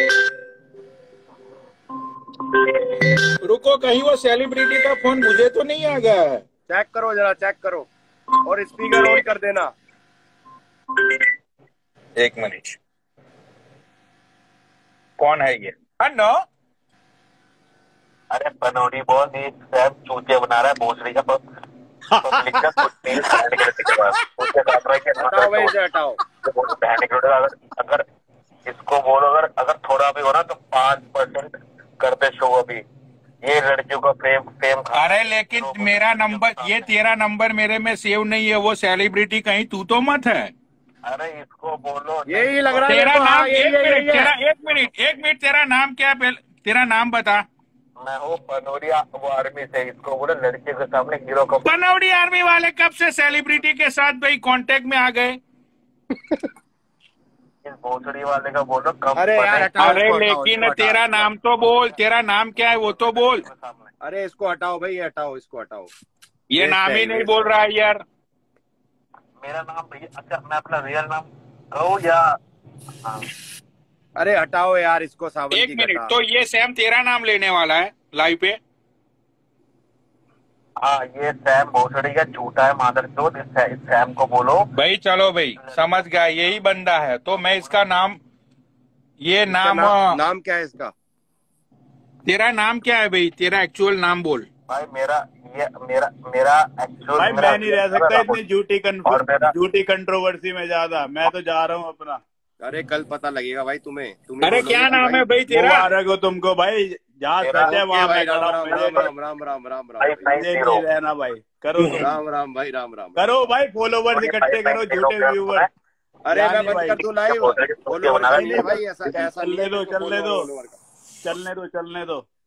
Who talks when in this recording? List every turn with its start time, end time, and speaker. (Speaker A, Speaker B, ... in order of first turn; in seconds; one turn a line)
Speaker A: 3.4-6.4
Speaker B: 6.7-7.9
Speaker B: 8.4-9.7
Speaker A: 12.2-12.8
Speaker A: 15.2-16.4
Speaker C: 18.3-21.4
Speaker D: 22.1-23.2
Speaker C: 22.2-25.7
Speaker B: 25.2-26.2
Speaker C: 26.4-28.0
Speaker C: 28.6-32.8
Speaker C: 33.4-36.9
Speaker A: 34.9-40.5
Speaker C: 41.0-42.9
Speaker B: 42.2-44.3
Speaker A: 42.9-47.4
Speaker C: 48.0-51.6
Speaker A: 51.6-55.4
Speaker C: 57.6-60.0
Speaker B: 59.1-61.2
Speaker A: 59.8-63.5
Speaker C: 62.6-63.9
Speaker B: 64.0-65.9
Speaker A: 66.5-68.0
Speaker B: 66.6-67.5
Speaker C: 69.4-72.2
Speaker B: 74.2-76.1
Speaker A: 75.5-78.6
Speaker C: 80.8-84.6
Speaker A: 84.7-88.2
Speaker C: 85.6-86.0
Speaker C: 87.4-87.7
Speaker A: 89.2-90.1
Speaker B: 89.5-90.9
Speaker A: 92.2-94.5
Speaker C: 94.7-98.4
Speaker D: 97.2-102.2
Speaker C: 99.0-99.5
Speaker B: 102.6-105.3
Speaker A: 104.4-105.8
Speaker D: 105.5-109.1
Speaker C: 107.4-107.8
Speaker B: 107.6-110.4
Speaker C: 108.7-109.0
Speaker C: 110.0-110.8
Speaker D: 110.3-112.1
Speaker B: 112.0-113.5
Speaker D: 113.2-115.7
Speaker C: 114.1-115.7
Speaker B: 116.2-120.8
Speaker D: 116.3-117.0
Speaker C: 117.1-118.8
Speaker D: 118.3-120.5
Speaker D: 121.2-122.2